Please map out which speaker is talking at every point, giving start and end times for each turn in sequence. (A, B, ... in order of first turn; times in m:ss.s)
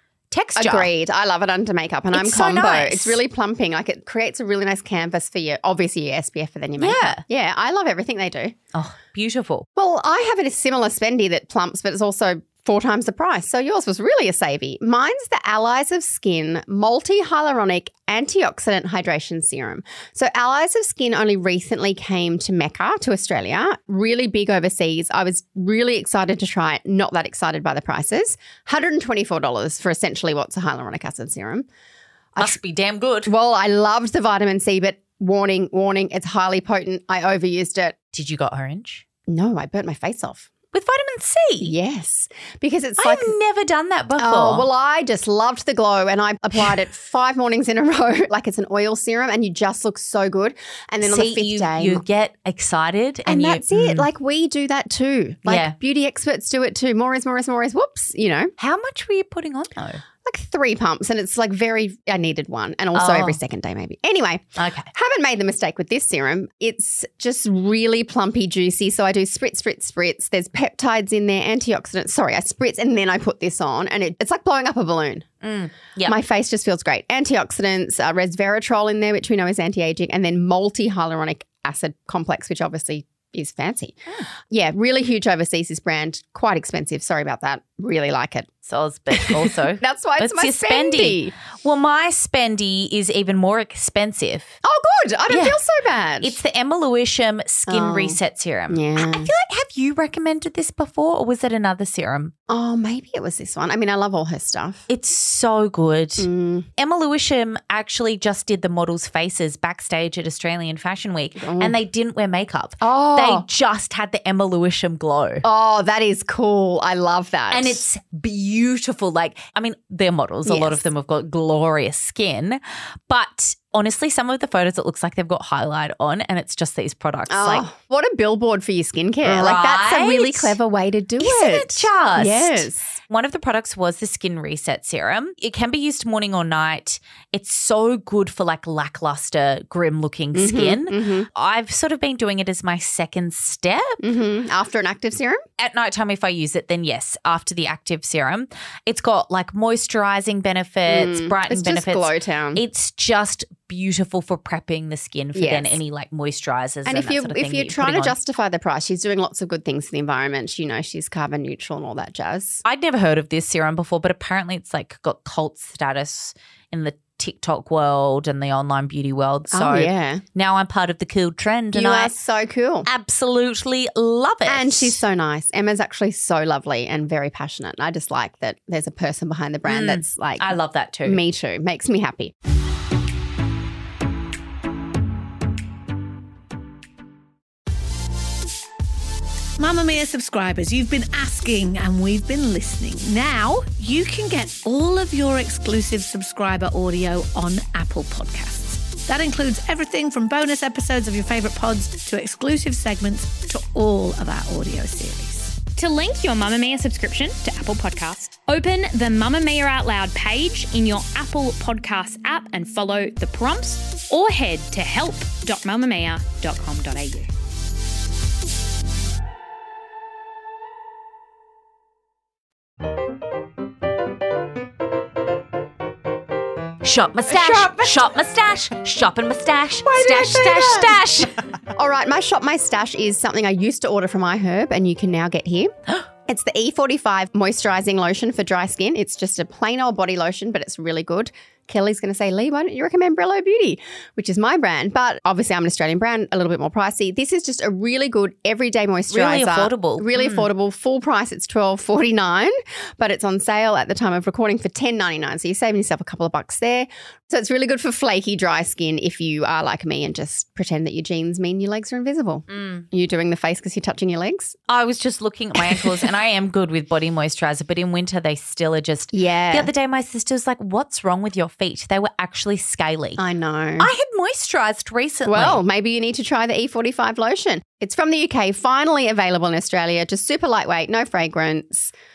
0:00.3-0:00.9 A
0:00.6-0:08.5 B
0:02.1-0:03.2 A
0:06.8-0:07.2 A
0:08.7-0:09.7 A
0:09.8-0:31.7 B
0:32.4-0:33.3 A
0:33.3-0:38.0 B
0:38.1-0:39.0 A
0:39.3-0:40.5 B
0:40.7-0:41.7 A
0:41.6-0:43.4 B
0:43.0-0:44.7 A
0:44.2-0:52.0 B
0:51.0-0:54.1 A
0:53.3-0:58.5 B
0:55.5-0:55.8 A
0:58.6-1:00.0 A
1:00.2-1:15.3 B
1:02.9-1:03.4 A
1:04.6-1:04.9 A
1:15.4-1:16.2 A
1:16.0-1:28.5 B
1:28.6-1:34.5 A
1:29.1-1:31.3 B
1:34.6-1:36.4 B
1:35.3-1:35.6 A
1:36.2-1:42.3 A
1:37.7-1:39.3 B
1:42.5-1:44.9 B
1:44.9-1:55.4 A
1:46.2-1:46.7 B
1:51.4-1:51.8 B
1:52.8-1:53.5 B
1:55.4-1:57.8 B
1:57.5-2:07.6 A
2:00.5-2:00.8 B
2:07.3-2:12.8 B
2:09.2-2:10.6 A
2:11.2-2:24.0 A
2:20.3-2:21.3 B
2:24.0-2:25.4 B
2:25.6-2:38.2 A
2:30.9-2:32.6 B
2:35.4-2:35.8 B
2:36.8-2:42.6 B
2:42.6-2:52.1 A
2:49.5-2:50.2 B
2:51.7-2:52.9 B
2:52.8-2:55.0 A
2:54.5-3:02.3 B
2:59.6-3:01.2 A
3:09.6-3:25.6 C
3:25.6-3:37.3 D
3:46.8-3:51.3 A
3:47.3-3:48.0 B
3:49.9-3:51.0 B
3:51.7-3:55.7 B
3:56.3-4:24.6 B
4:09.1-4:10.5 A
4:22.5-4:22.8 A
4:24.7-4:33.2 A
4:25.6-4:26.1 B
4:29.1-4:29.7 B
4:33.2-4:33.9 B
4:33.8-4:35.6 A
4:35.3-4:41.9 B